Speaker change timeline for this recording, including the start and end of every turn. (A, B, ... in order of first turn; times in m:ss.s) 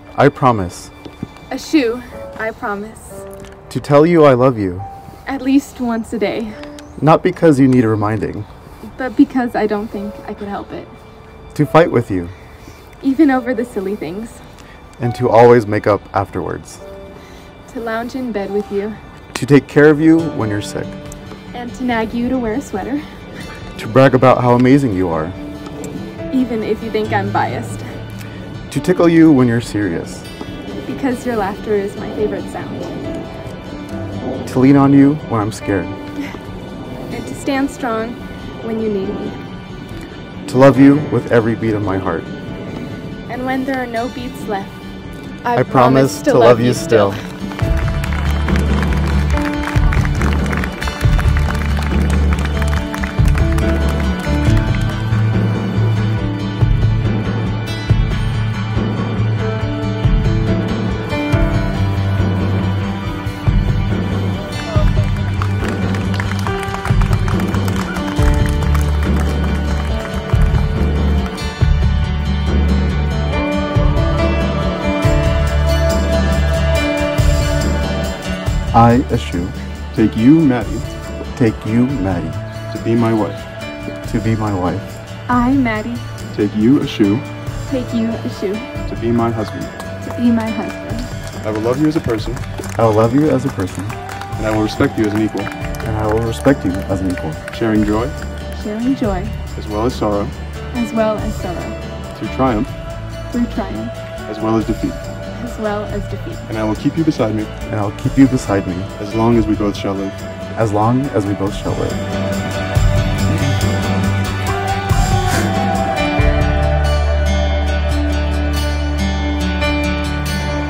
0:00.2-0:00.9 A
0:01.5-0:03.3 B
0:03.7-0:04.9 A
0:05.3-0:06.6 B
0:07.0-0:08.5 A
0:09.0-0:10.9 B
0:11.5-0:12.3 A
0:13.0-0:14.4 B
0:15.0-0:16.8 A
0:17.7-0:19.0 B
0:19.3-0:21.0 A
0:21.5-0:23.0 B
0:23.8-0:25.4 A
0:26.3-0:27.9 B
0:28.7-0:30.3 A
0:30.8-0:33.0 B
0:34.4-0:36.0 A
0:37.1-0:39.4 B
0:40.5-0:42.3 A
0:43.3-0:44.8 B
0:45.4-0:47.2 B
0:45.6-0:47.2 A
1:18.7-1:19.6 A
1:19.9-1:20.9 C
1:21.4-1:22.4 A
1:22.7-1:23.4 C
1:24.1-1:24.9 A
1:25.3-1:26.1 B
1:26.3-1:27.3 C
1:27.7-1:28.7 B
1:28.9-1:29.7 C
1:30.0-1:31.1 B
1:31.4-1:32.4 C
1:32.8-1:34.0 A
1:34.4-1:35.5 C
1:35.8-1:37.4 A
1:37.5-1:38.2 C
1:38.5-1:39.4 B
1:39.6-1:40.4 C
1:40.7-1:41.8 B
1:42.1-1:42.7 C
1:43.3-1:43.9 B
1:44.3-1:45.0 C
1:45.4-1:46.5 B
1:46.5-1:47.5 C
1:47.7-1:48.9 A
1:49.0-1:50.2 C
1:50.6-1:52.0 A